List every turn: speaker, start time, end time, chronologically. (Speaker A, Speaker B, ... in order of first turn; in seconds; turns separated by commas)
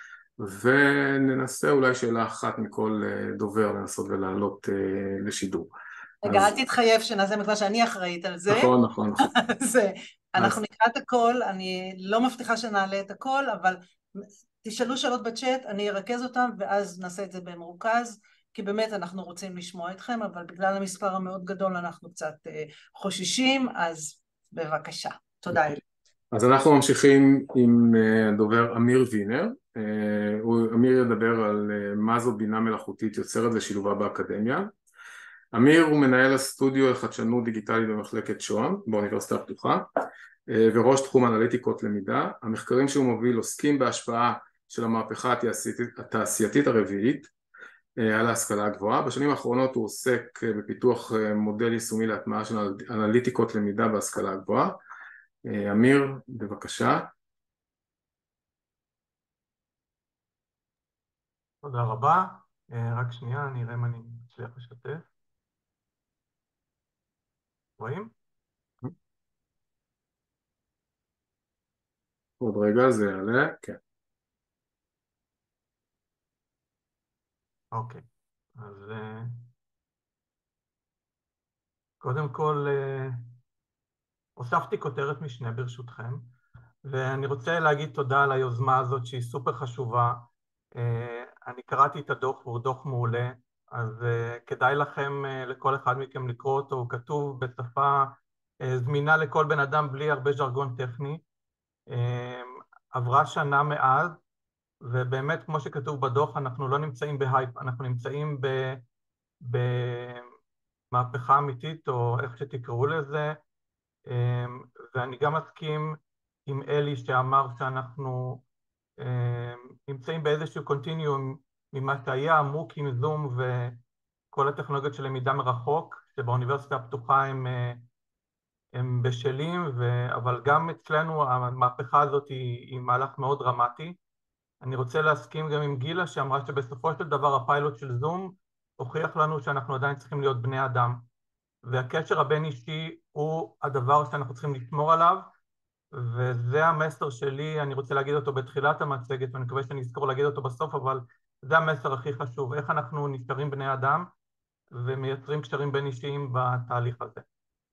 Speaker A: 0.4-5.7, Speaker B: 6.2-8.7, Speaker A: 6.2-6.5, Speaker A: 8.5-9.2, Speaker B: 9.2-25.8, Speaker A: 26.3-34.7, Speaker A: 35.5-39.9, Speaker A: 40.5-47.3, Speaker A: 48.0-54.8, Speaker A: 55.4-57.1, Speaker C: 61.6-65.0, Speaker C: 67.8-68.1, Speaker A: 72.4-73.8, Speaker C: 77.7-78.0, Speaker C: 78.6-79.5, Speaker C: 82.0-83.2, Speaker C: 84.4-86.3, Speaker C: 86.8-101.2, Speaker C: 101.9-104.2, Speaker C: 104.8-108.8, Speaker C: 109.4-110.3, Speaker C: 110.9-113.4, Speaker C: 114.1-118.4, Speaker C: 119.0-123.8, Speaker C: 124.3-127.8, Speaker C: 128.7-134.0, Speaker C: 134.6-141.0, Speaker C: 141.6-145.3, Speaker C: 145.9-154.1, Speaker C: 154.7-157.2